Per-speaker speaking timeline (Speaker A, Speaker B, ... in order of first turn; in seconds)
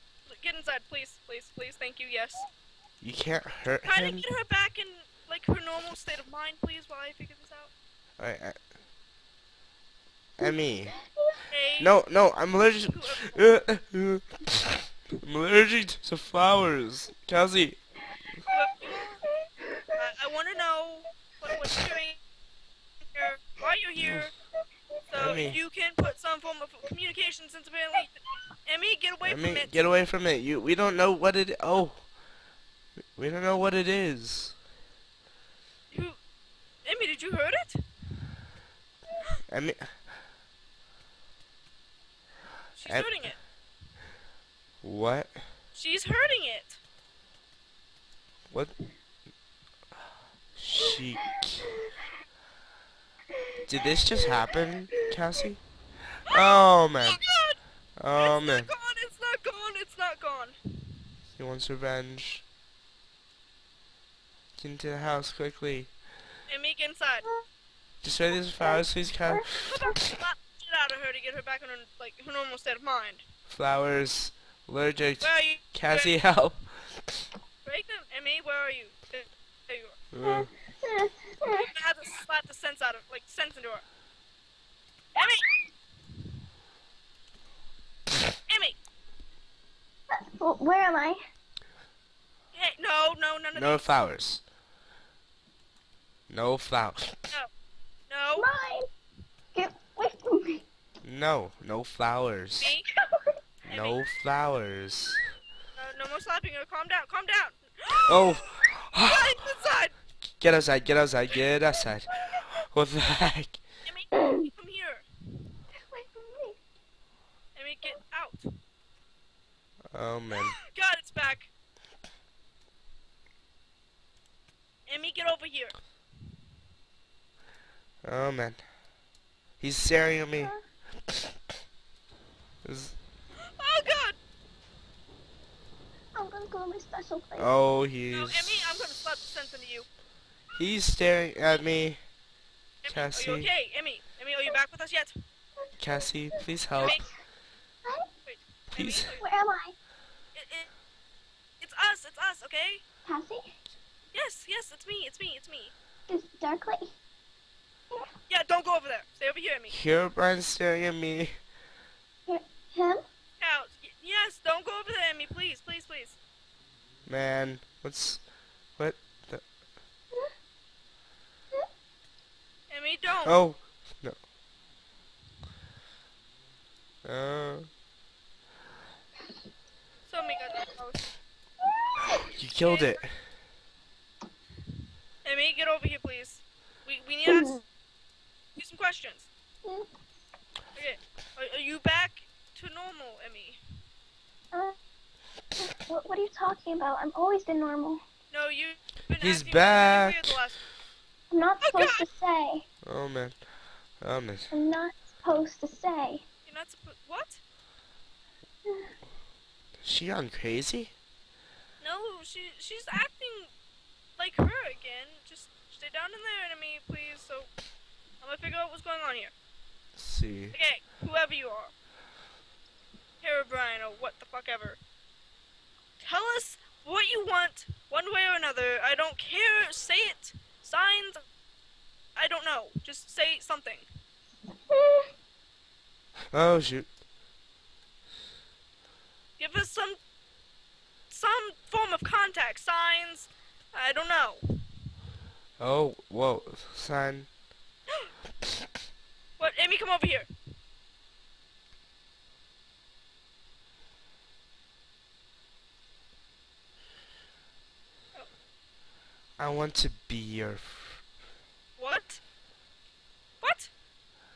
Speaker A: 0.3-2.5, 3.8-7.7, 11.5-11.9, 12.9-13.4, 18.5-19.2, 20.0-22.2, 23.1-24.3, 25.1-28.1, 28.7-29.8, 35.9-36.2, 36.8-37.8, 42.7-43.4, 45.7-46.8, 56.3-57.6, 58.1-60.6, 66.5-67.3, 69.6-73.2, 75.2-76.1, 77.6-80.0, 81.5-83.8, 85.1-85.5, 88.5-88.8, 92.5-94.0, 98.1-98.5, 102.6-102.8, 103.7-104.0, 105.7-108.5, 109.0-110.0, 113.8-115.0, 117.5-118.5, 120.3-121.5, 124.8-125.8, 133.6-134.2, 138.1-139.9, 142.8-145.1, 146.8-147.0, 148.2-149.2, 150.3-150.7, 151.6-152.8, 154.1-155.7, 158.3-159.8, 163.4-166.2, 172.7-173.3, 180.1-181.1, 182.6-183.0, 185.2-187.6, 188.6-189.3, 190.7-193.6, 198.3-200.6, 201.6-202.0, 206.4-207.4, 211.8-213.5, 214.2-217.5, 218.2-219.3, 220.5-221.7, 223.2-224.8, 226.0-231.2, 232.2-233.8, 239.4-240.0, 241.1-244.4, 249.4-250.3, 261.8-262.2, 263.4-263.7
Speaker B: 3.0-4.2, 8.2-8.6, 10.4-10.9, 11.8-14.4, 15.1-17.8, 24.0-24.3, 25.1-25.6, 29.2-32.1, 33.1-34.5, 39.5-39.9, 44.8-45.4, 48.5-48.7, 50.5-51.7, 53.7-55.6, 56.3-57.2, 58.0-58.7, 61.4-62.4, 64.6-65.9, 68.0-69.5, 73.5-77.0, 80.1-80.5, 93.5-94.4, 96.3-97.2, 101.0-102.7, 103.6-105.2, 108.1-109.4, 110.4-113.6, 119.9-120.5, 128.0-128.6, 129.6-130.5, 132.6-133.0, 137.4-138.6, 140.5-142.0, 142.9-143.5, 145.8-147.0, 148.8-149.1, 159.7-161.3, 167.1-168.2, 168.8-169.4, 173.2-174.2, 177.0-177.7, 182.3-183.2, 199.2-200.4, 202.8-203.4, 204.0-204.5, 209.8-210.9, 219.9-220.5, 236.3-236.9, 245.6-247.3, 259.4-261.0
Speaker C: 19.2-19.8, 54.0-54.5, 68.6-69.9, 80.2-81.7, 90.1-91.2, 98.4-98.9, 99.5-100.6, 103.0-103.3, 115.9-116.6, 136.1-137.5, 146.8-147.1, 149.2-149.7, 153.1-153.5, 156.1-156.9, 162.3-163.0, 187.2-187.6, 195.6-198.0, 201.3-202.6, 204.5-206.2, 234.7-235.1